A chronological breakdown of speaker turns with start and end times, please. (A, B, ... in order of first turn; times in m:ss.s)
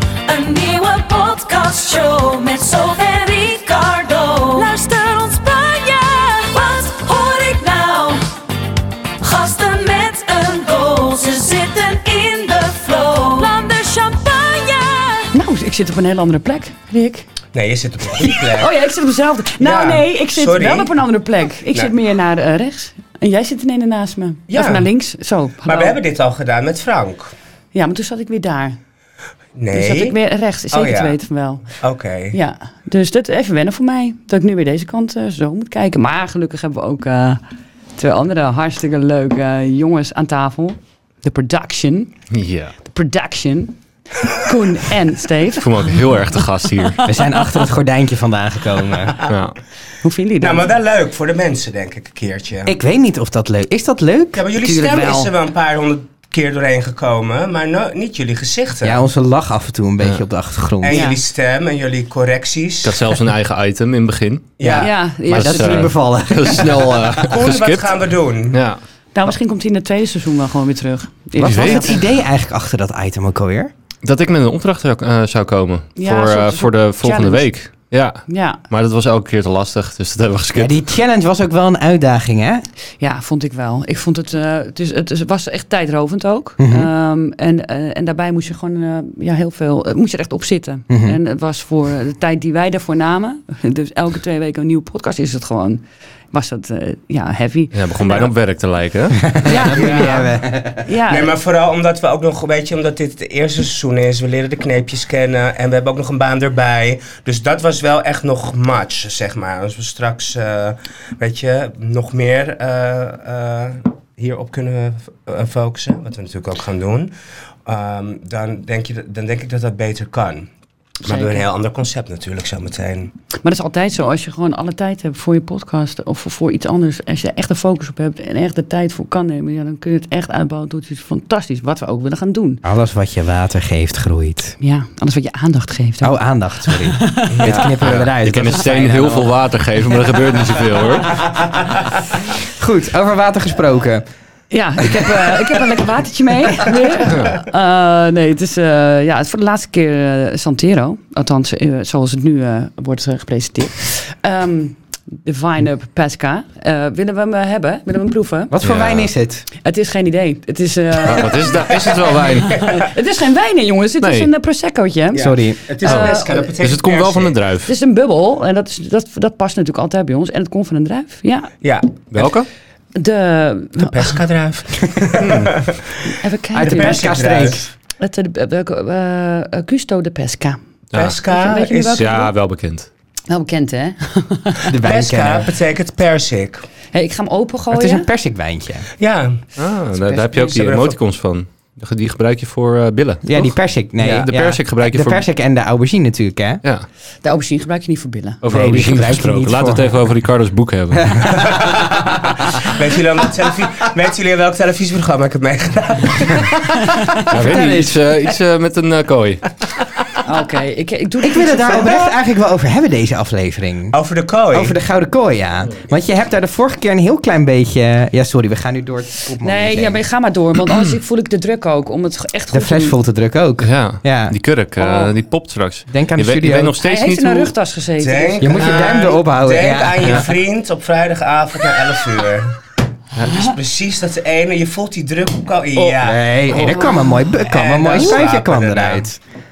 0:00.2-0:08.2 A
0:09.2-0:15.3 A
0:15.3-0:17.2 B
0:17.5-0:18.7 C
0:18.5-0:26.0 B
0:19.6-0:21.0 C
0:24.5-0:24.9 C
0:25.6-0:27.3 C
0:27.7-0:28.8 B
0:29.6-0:30.2 C
0:29.7-0:31.7 B
0:30.7-0:31.2 C
0:31.8-0:32.4 C
0:32.3-0:37.4 B
0:38.0-0:42.1 B
0:42.3-0:42.7 D
0:42.8-0:43.7 B
0:44.3-0:46.2 B
0:45.6-0:47.0 D
0:46.8-0:47.3 B
0:47.0-0:49.2 E
0:49.3-0:49.6 D
0:50.0-0:50.7 B
0:50.4-0:52.7 C
0:52.6-0:54.4 E
0:54.3-0:59.0 C
0:54.6-0:55.3 B
0:58.8-1:01.0 E
1:00.8-1:03.1 C
1:00.9-1:01.2 B
1:02.8-1:04.7 D
1:04.6-1:04.9 C
1:04.6-1:07.3 E
1:04.7-1:05.9 B
1:05.3-1:08.0 D
1:07.2-1:08.6 C
1:08.5-1:08.8 D
1:09.1-1:12.0 B
1:11.4-1:12.1 D
1:11.4-1:13.7 E
1:14.0-1:20.8 D
1:16.0-1:17.5 B
1:18.3-1:18.6 B
1:20.5-1:22.6 E
1:23.0-1:38.3 B
1:26.6-1:26.9 E
1:30.9-1:31.2 E
1:37.7-1:39.4 D
1:39.2-1:40.9 E
1:39.4-1:40.3 B
1:39.7-1:40.2 C
1:40.8-1:41.3 B
1:41.1-1:57.1 C
1:57.6-2:00.5 C
2:01.0-2:01.4 B
2:01.0-2:03.1 C
2:03.4-2:12.6 B
2:12.6-2:14.6 E
2:14.6-2:17.7 B
2:16.0-2:19.4 E
2:17.3-2:17.6 C
2:17.8-2:21.2 D
2:21.0-2:21.7 E
2:22.4-2:24.0 E
2:24.5-2:38.5 B
2:24.9-2:25.2 E
2:38.5-2:39.5 E
2:38.6-2:39.1 D
2:39.6-2:46.5 B
2:41.0-2:42.8 D
2:41.7-2:42.8 C
2:44.0-2:44.3 D
2:45.1-2:47.4 C
2:45.2-2:45.6 E
2:45.8-2:47.7 D
2:47.6-2:51.5 B
2:51.6-2:52.3 C
2:52.1-2:52.5 D
2:52.9-2:54.2 B
2:53.8-2:55.8 C
2:55.2-2:55.5 D
2:56.1-2:57.4 B
2:56.5-2:57.7 E
2:56.8-2:57.7 C
2:58.0-3:00.6 B
3:00.9-3:01.2 D
3:00.9-3:02.1 C
3:01.3-3:02.3 B
3:01.9-3:02.9 D
3:03.3-3:04.7 B
3:04.6-3:05.5 E
3:04.8-3:06.6 C
3:06.9-3:08.1 B
3:07.7-3:08.9 E
3:09.0-3:09.4 C
3:09.6-3:15.2 D
3:09.9-3:10.6 B
3:10.5-3:11.0 C
3:13.2-3:16.6 E
3:17.2-3:18.4 B
3:18.4-3:21.6 D
3:18.5-3:20.1 E
3:20.9-3:21.8 E
3:21.3-3:27.2 C
3:27.3-3:29.6 D
3:27.3-3:28.0 E
3:30.2-3:32.1 B
3:31.2-3:34.0 E
3:33.9-3:34.8 C
3:34.5-3:40.0 E
3:39.4-3:43.0 B
3:42.5-3:44.3 E
3:43.6-3:47.5 D
3:44.8-3:45.1 B
3:45.9-3:46.8 E
3:46.8-3:49.0 B
3:48.0-3:52.6 C
3:48.4-3:50.3 E
3:53.2-3:56.7 C
3:55.7-3:59.2 E
3:56.5-3:57.2 B
3:57.4-3:59.0 C